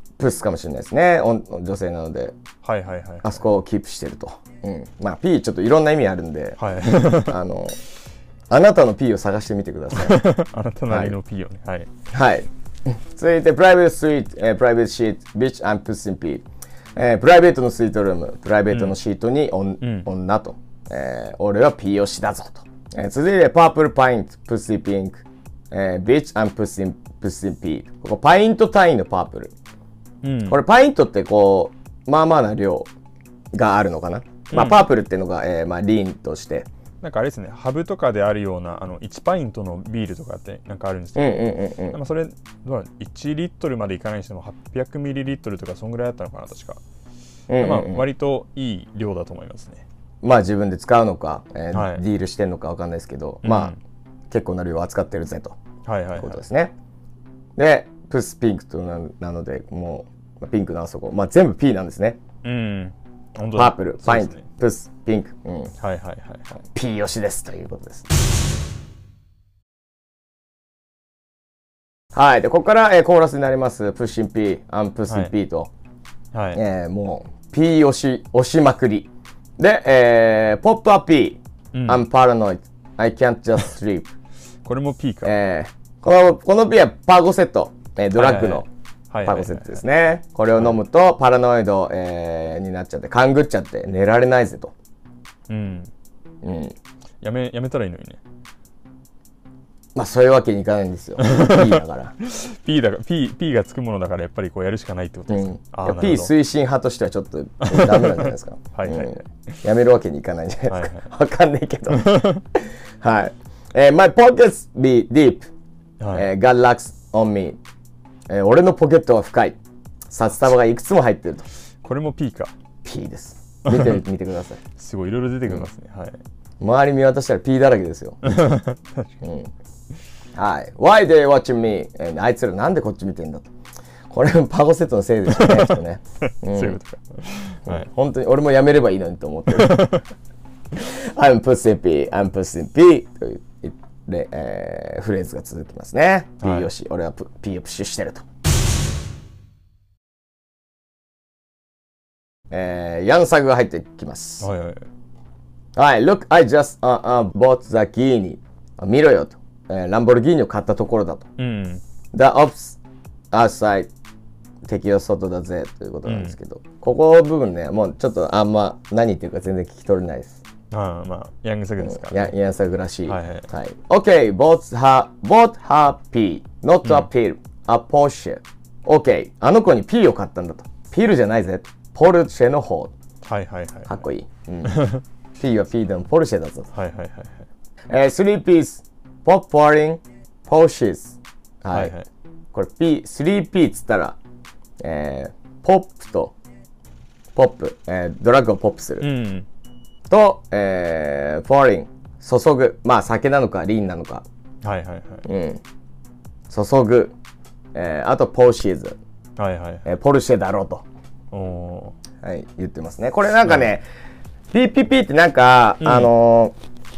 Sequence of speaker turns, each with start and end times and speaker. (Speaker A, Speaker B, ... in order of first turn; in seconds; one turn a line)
Speaker A: 0.2-2.4
Speaker B: 2.6-3.4
Speaker A: 3.2-7.7
Speaker B: 6.6-7.3
Speaker A: 8.5-10.2
Speaker B: 9.9-11.9
Speaker A: 10.9-11.2
Speaker A: 12.1-16.4
Speaker A: 16.9-29.5
Speaker B: 18.7-18.9
Speaker B: 19.8-20.1
Speaker B: 30.2-30.6
Speaker A: 30.5-32.9
Speaker A: 33.5-36.7
Speaker B: 34.5-34.8
Speaker B: 37.0-46.8
Speaker A: 41.1-42.0
Speaker A: 47.5-48.0
Speaker B: 47.6-49.8
Speaker A: 50.2-53.8
Speaker B: 51.7-52.0
Speaker B: 53.4-53.8
Speaker A: 54.3-55.6
Speaker B: 55.8-56.4
Speaker A: 56.1-56.7
Speaker A: 57.5-62.2
Speaker B: 62.4-64.5
Speaker A: 63.5-65.7
Speaker B: 65.8-66.6
Speaker A: 66.6-68.0
Speaker A: 72.1-75.7
Speaker B: 76.3-76.6
Speaker A: 76.5-84.1
Speaker B: 81.7-82.0
Speaker B: 84.6-85.3
Speaker A: 85.2-88.7
Speaker B: 88.2-89.8
Speaker A: 89.2-94.7
Speaker B: 95.5-95.9
Speaker A: 96.4-96.8
Speaker B: 97.2-98.2
Speaker A: 99.9-102.1
Speaker B: 101.2-106.3
Speaker A: 105.3-115.5
Speaker B: 107.6-109.6
Speaker B: 110.7-111.0
Speaker B: 111.9-112.4
Speaker B: 116.0-116.3
Speaker A: 116.1-117.6
Speaker A: 118.3-119.6
Speaker A: 120.1-121.4
Speaker B: 121.8-122.5
Speaker A: 122.8-124.6
Speaker B: 123.7-124.0
Speaker B: 124.8-126.2
Speaker A: 126.6-128.5
Speaker B: 128.2-129.2
Speaker A: 129.2-129.5
Speaker A: 130.3-133.5
Speaker A: 134.1-136.8
Speaker B: 135.3-135.8
Speaker B: 136.3-137.8
Speaker A: 137.7-140.0
Speaker B: 139.5-140.0
Speaker A: 140.7-148.2
Speaker B: 146.4-146.7
Speaker A: 152.5-154.5
Speaker B: 154.4-154.8
Speaker A: 155.8-161.3
Speaker B: 161.4-161.8
Speaker A: 162.1-162.8
Speaker A: 163.3-163.9
Speaker A: 164.7-170.4
Speaker B: 166.1-166.3
Speaker B: 170.7-172.3
Speaker A: 171.8-182.9
Speaker B: 173.1-173.5
Speaker B: 183.2-183.9
Speaker A: 183.9-186.7
Speaker B: 184.6-185.0
Speaker B: 186.7-187.4
Speaker A: 187.9-191.9
Speaker B: 191.7-192.1
Speaker A: 192.5-194.2
Speaker A: 194.8-196.3
Speaker A: 197.3-199.1
Speaker B: 199.0-199.4
Speaker A: 200.1-204.2
Speaker B: 204.6-205.2
Speaker A: 205.2-205.6
Speaker A: 206.5-207.1
Speaker A: 207.7-209.0
Speaker B: 209.4-209.8
Speaker A: 209.8-210.8
Speaker B: 211.3-211.9
Speaker A: 212.2-213.8
Speaker A: 214.5-216.5
Speaker B: 215.8-216.1